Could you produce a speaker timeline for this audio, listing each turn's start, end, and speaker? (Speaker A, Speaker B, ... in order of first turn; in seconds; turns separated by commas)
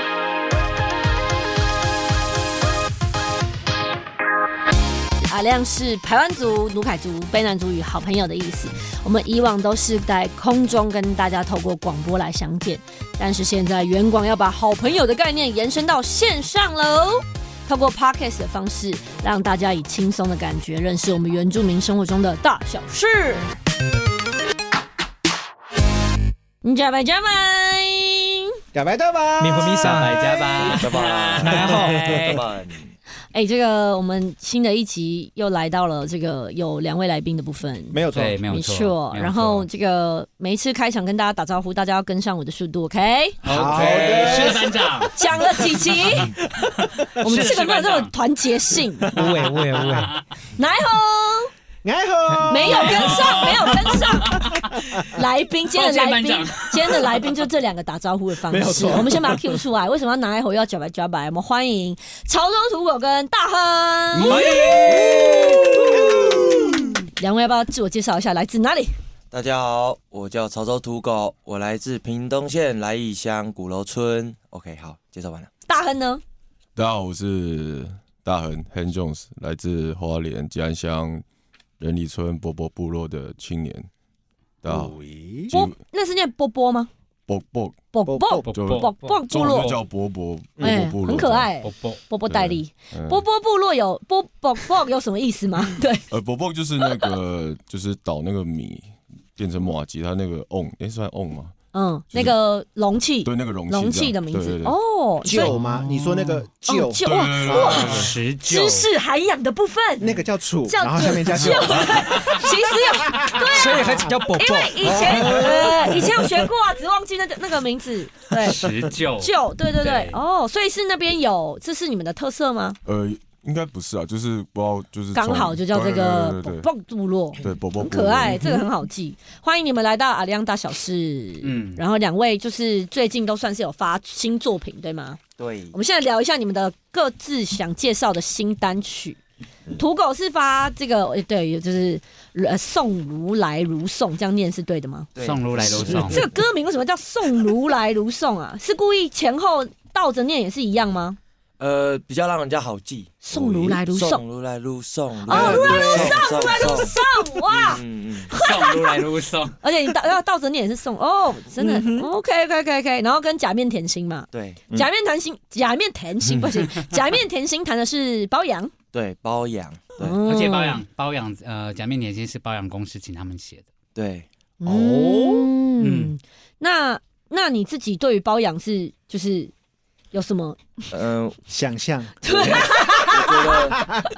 Speaker A: 5.2-23.5, Speaker A: 26.6-28.4, Speaker B: 28.7-30.1, Speaker C: 29.4-30.3, Speaker D: 29.8-32.4, Speaker A: 30.5-30.8, Speaker E: 30.8-32.9, Speaker C: 31.4-32.1, Speaker B: 31.7-32.2, Speaker A: 33.3-44.5, Speaker B: 37.9-38.5, Speaker D: 38.1-39.7, Speaker D: 43.4-45.2, Speaker B: 43.5-46.9, Speaker A: 45.1-46.4, Speaker D: 47.1-48.1, Speaker A: 47.2-49.1, Speaker B: 49.1-49.5, Speaker C: 49.1-50.1, Speaker D: 49.7-50.2, Speaker A: 50.6-51.5, Speaker B: 51.8-55.0, Speaker A: 52.5-54.5, Speaker D: 52.7-55.0, Speaker A: 55.1-66.3, Speaker D: 55.7-57.3, Speaker B: 58.5-59.6, Speaker B: 64.2-67.0, Speaker C: 64.2-65.0, Speaker A: 67.2-68.9, Speaker E: 69.3-75.5, Speaker A: 75.7-76.2, Speaker F: 76.8-81.2, Speaker F: 81.8-83.9, Speaker F: 84.6-85.0, Speaker B: 84.6-85.5, Speaker F: 85.5-85.8, Speaker A: 85.5-86.9, Speaker F: 87.3-87.8, Speaker A: 87.9-89.8, Speaker B: 88.1-88.5, Speaker D: 88.4-89.7, Speaker F: 88.5-91.5, Speaker B: 90.6-90.8, Speaker A: 90.6-96.0, Speaker D: 91.6-92.0, Speaker F: 92.3-93.2, Speaker F: 96.1-101.5, Speaker A: 96.8-97.1, Speaker A: 101.7-105.6, Speaker F: 102.1-102.4, Speaker F: 103.2-104.8, Speaker B: 105.2-107.1, Speaker D: 105.4-106.5, Speaker A: 106.7-110.1, Speaker F: 107.0-108.2, Speaker D: 107.7-108.9, Speaker B: 110.0-114.2, Speaker A: 110.7-118.6, Speaker F: 111.4-111.8, Speaker C: 113.5-115.0, Speaker B: 114.8-116.5, Speaker D: 118.4-120.2, Speaker A: 119.2-122.8, Speaker F: 122.8-126.7, Speaker A: 125.1-135.2, Speaker F: 127.4-128.4, Speaker B: 128.4-128.7, Speaker D: 131.4-131.8, Speaker E: 135.4-135.8, Speaker A: 135.7-139.2, Speaker A: 139.8-145.1, Speaker E: 145.2-146.3, Speaker D: 145.2-146.3, Speaker A: 145.8-151.2, Speaker E: 151.6-156.9, Speaker A: 153.2-154.2, Speaker B: 155.3-157.1, Speaker A: 155.3-159.0, Speaker E: 157.5-158.4, Speaker D: 158.3-159.6, Speaker A: 159.6-168.7, Speaker B: 161.6-162.1, Speaker E: 164.3-164.6, Speaker E: 168.9-170.2, Speaker A: 170.0-170.8, Speaker D: 170.2-173.7, Speaker E: 174.0-174.3, Speaker A: 174.6-179.5, Speaker B: 174.7-175.5, Speaker D: 175.8-176.1, Speaker A: 180.1-180.9, Speaker E: 180.9-181.4, Speaker B: 181.5-184.1, Speaker A: 182.2-183.5, Speaker E: 182.4-183.8